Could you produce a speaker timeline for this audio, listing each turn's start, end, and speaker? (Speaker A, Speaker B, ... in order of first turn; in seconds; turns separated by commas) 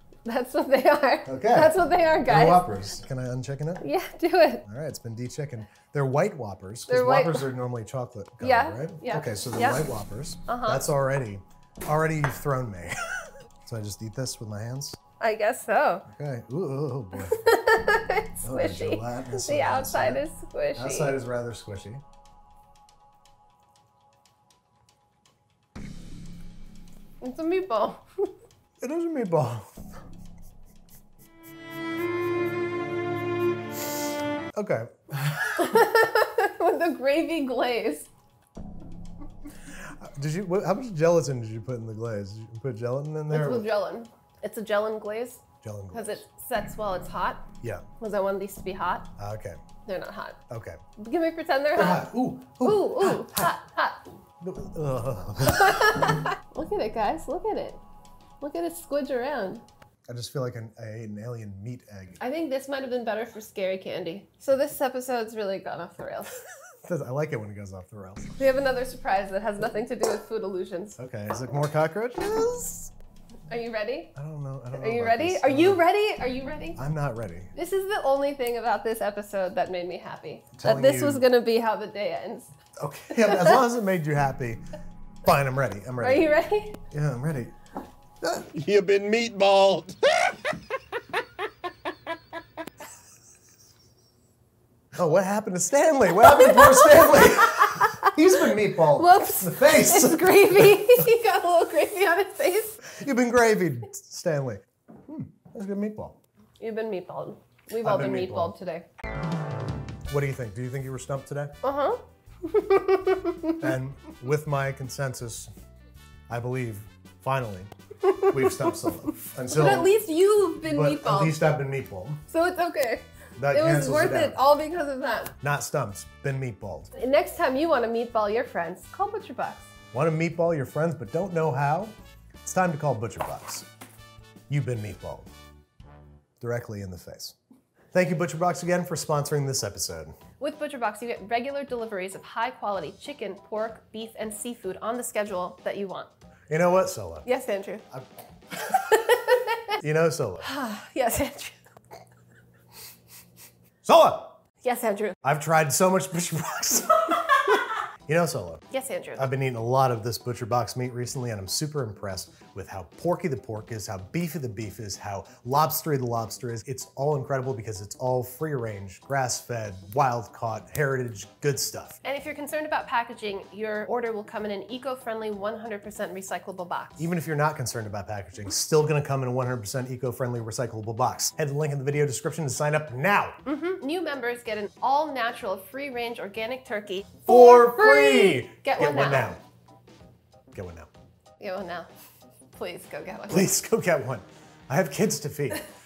Speaker A: 0.3-2.7, Speaker B: 1.3-3.8, Speaker A: 3.8-4.6, Speaker B: 4.6-15.0, Speaker A: 6.9-7.5, Speaker A: 8.4-9.9, Speaker A: 10.5-10.8, Speaker A: 15.2-16.1, Speaker B: 16.1-17.4, Speaker A: 17.2-21.1, Speaker B: 18.4-20.2, Speaker B: 20.8-22.0, Speaker A: 27.2-28.3, Speaker B: 28.8-29.9, Speaker B: 34.5-35.9, Speaker A: 35.6-38.1, Speaker B: 39.7-43.7, Speaker A: 43.3-49.1, Speaker B: 45.6-46.2, Speaker B: 49.2-49.6, Speaker A: 49.9-50.4, Speaker B: 50.5-50.8, Speaker A: 51.0-52.1, Speaker B: 51.8-53.5, Speaker A: 52.6-54.0, Speaker B: 54.4-56.1, Speaker A: 55.5-57.8, Speaker A: 58.4-59.6, Speaker B: 60.1-62.2, Speaker A: 62.2-66.3, Speaker B: 66.8-68.4, Speaker A: 68.4-71.0, Speaker B: 71.0-72.9, Speaker A: 73.5-74.1, Speaker B: 74.2-75.8, Speaker A: 74.8-76.8, Speaker B: 76.8-77.5, Speaker A: 77.5-82.5, Speaker B: 80.5-81.2, Speaker B: 82.8-84.6, Speaker A: 83.1-83.7, Speaker B: 85.2-86.3, Speaker A: 86.0-86.8, Speaker B: 86.9-87.6, Speaker B: 88.2-88.5, Speaker C: 88.5-90.6, Speaker B: 94.9-101.0, Speaker A: 96.2-98.1, Speaker A: 98.9-102.8, Speaker B: 102.8-106.2, Speaker A: 106.6-108.9, Speaker B: 107.8-108.5, Speaker B: 110.1-111.6, Speaker A: 111.6-113.7, Speaker B: 113.6-115.5, Speaker B: 116.3-117.7, Speaker A: 118.0-118.8, Speaker B: 118.2-120.0, Speaker A: 119.5-121.4, Speaker B: 120.6-122.2, Speaker A: 122.3-125.4, Speaker B: 123.4-124.4, Speaker B: 125.4-126.9, Speaker A: 127.0-129.7, Speaker B: 129.9-133.7, Speaker B: 134.5-135.3, Speaker B: 136.4-137.4, Speaker B: 137.9-140.2, Speaker A: 140.4-146.1, Speaker B: 146.5-147.3, Speaker A: 147.2-147.8, Speaker B: 147.9-148.8, Speaker A: 148.7-149.8, Speaker B: 149.8-150.5, Speaker A: 150.4-151.6, Speaker B: 153.8-154.4, Speaker A: 154.6-155.2, Speaker B: 155.2-158.6, Speaker A: 158.7-159.3, Speaker B: 159.2-172.0, Speaker A: 172.0-177.1, Speaker B: 177.0-183.4, Speaker A: 183.4-189.4, Speaker B: 187.3-189.4, Speaker B: 190.5-190.9, Speaker A: 191.4-191.9, Speaker A: 192.5-193.5, Speaker B: 193.3-195.6